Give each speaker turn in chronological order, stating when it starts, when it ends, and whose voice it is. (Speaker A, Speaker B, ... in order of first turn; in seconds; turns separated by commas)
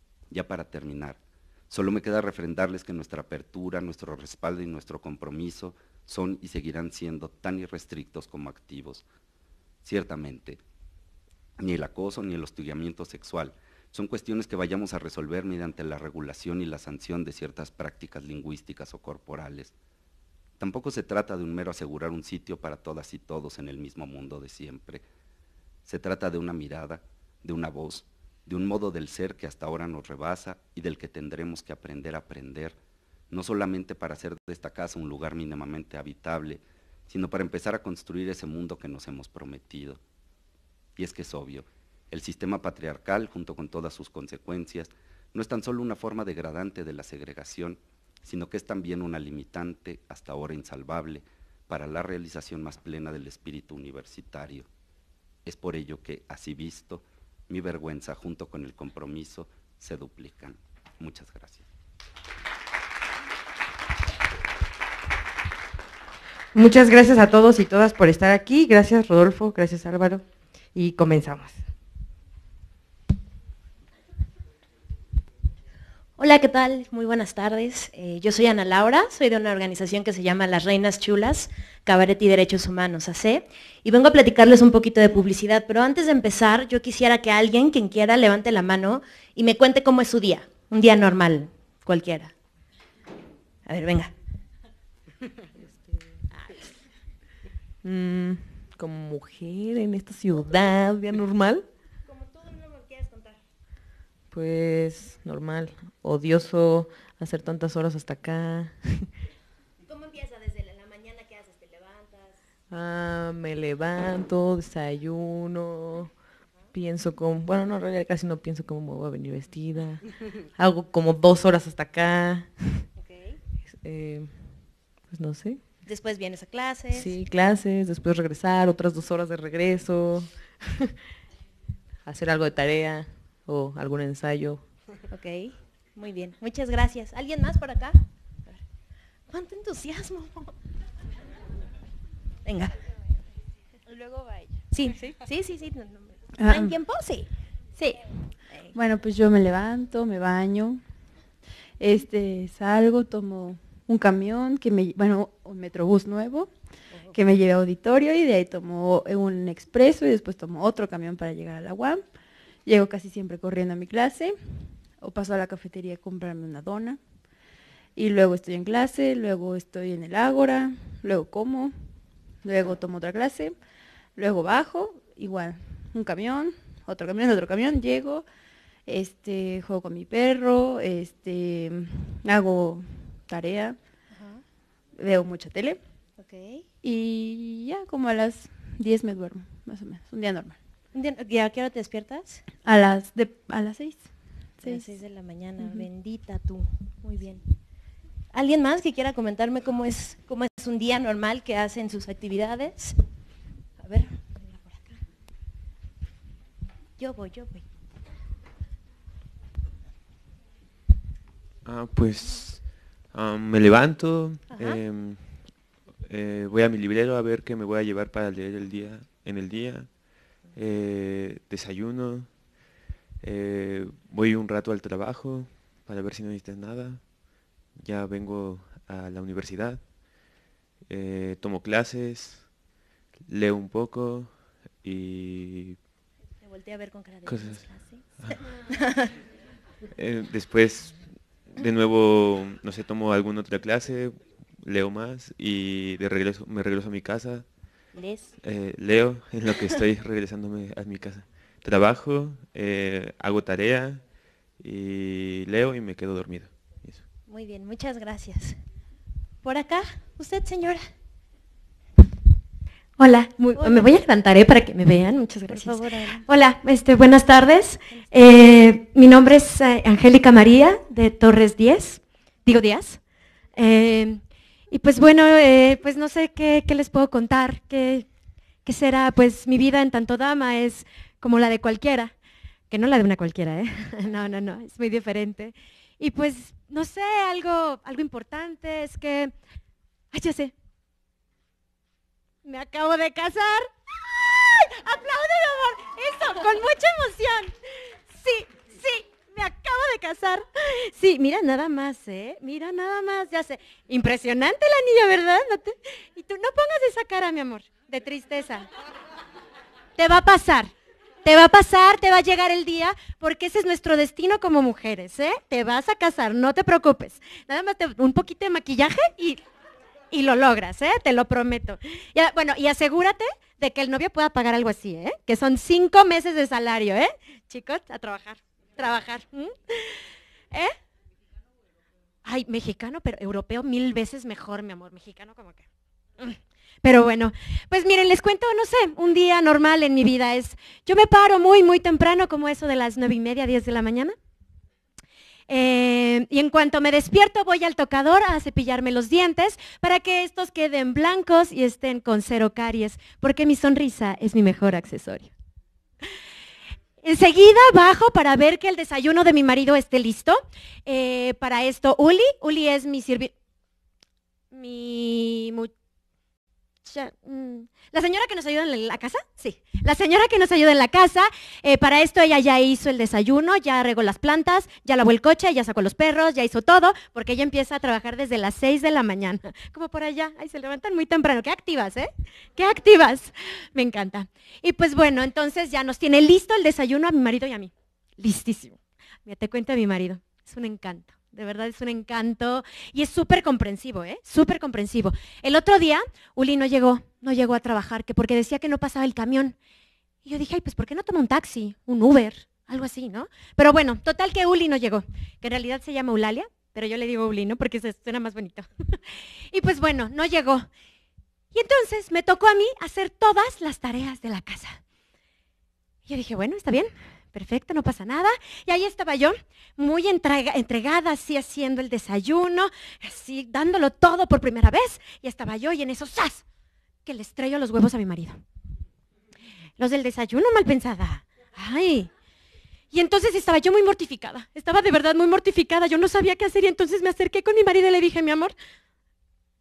Speaker A: 0.3-9.0, Speaker A: 9.8-10.6, Speaker A: 11.6-19.7, Speaker A: 20.6-25.0, Speaker A: 25.9-32.8, Speaker A: 33.3-40.0, Speaker A: 41.0-54.7, Speaker A: 55.4-61.6, Speaker B: 66.5-71.6, Speaker C: 76.2-92.3, Speaker C: 93.7-94.1, Speaker B: 97.8-101.7, Speaker C: 102.0-103.4, Speaker B: 104.3-109.1, Speaker C: 109.8-112.4, Speaker B: 112.7-116.1, Speaker B: 116.7-122.9, Speaker C: 123.0-123.4, Speaker B: 123.7-125.6, Speaker C: 125.8-127.1, Speaker B: 126.9-130.9, Speaker B: 132.1-134.6, Speaker C: 135.1-138.6, Speaker C: 139.3-140.5, Speaker C: 142.4-142.8, Speaker C: 143.9-147.3, Speaker D: 146.3-146.8, Speaker C: 147.8-148.8, Speaker D: 148.7-150.8, Speaker D: 151.8-162.0, Speaker D: 162.6-167.0, Speaker D: 167.9-173.6, Speaker D: 174.2-178.2, Speaker D: 178.9-183.8, Speaker C: 184.1-184.4, Speaker D: 184.9-185.8, Speaker C: 186.2-186.6, Speaker D: 186.8-190.6, Speaker C: 190.9-192.4, Speaker D: 192.6-194.9, Speaker C: 194.6-197.4, Speaker C: 198.3-203.0, Speaker C: 203.8-205.0, Speaker C: 207.0-207.6, Speaker E: 211.6-222.4, Speaker C: 214.5-214.8, Speaker E: 223.2-227.1, Speaker E: 227.8-229.9, Speaker E: 230.9-232.5, Speaker E: 233.3-235.8, Speaker C: 236.4-239.1, Speaker E: 237.2-238.4, Speaker E: 239.9-247.5, Speaker C: 247.9-248.3, Speaker E: 248.4-254.0, Speaker E: 254.6-257.0, Speaker C: 257.3-258.6, Speaker C: 259.4-260.9, Speaker F: 263.0-273.0, Speaker C: 263.5-263.9, Speaker C: 265.5-266.2, Speaker F: 273.6-278.1, Speaker F: 278.6-282.1, Speaker F: 282.7-289.3, Speaker F: 290.1-290.5, Speaker F: 292.4-297.6, Speaker F: 298.1-308.7, Speaker F: 310.0-310.7, Speaker F: 311.2-319.4, Speaker F: 320.1-330.0, Speaker F: 332.2-335.6, Speaker F: 336.2-344.1, Speaker F: 345.5-355.3, Speaker F: 357.0-363.3, Speaker F: 364.5-365.7, Speaker F: 366.8-399.6, Speaker F: 400.2-409.0, Speaker F: 409.5-410.7, Speaker F: 411.5-414.8, Speaker F: 416.1-426.4, Speaker F: 427.1-428.4, Speaker F: 429.8-432.1, Speaker F: 432.9-438.5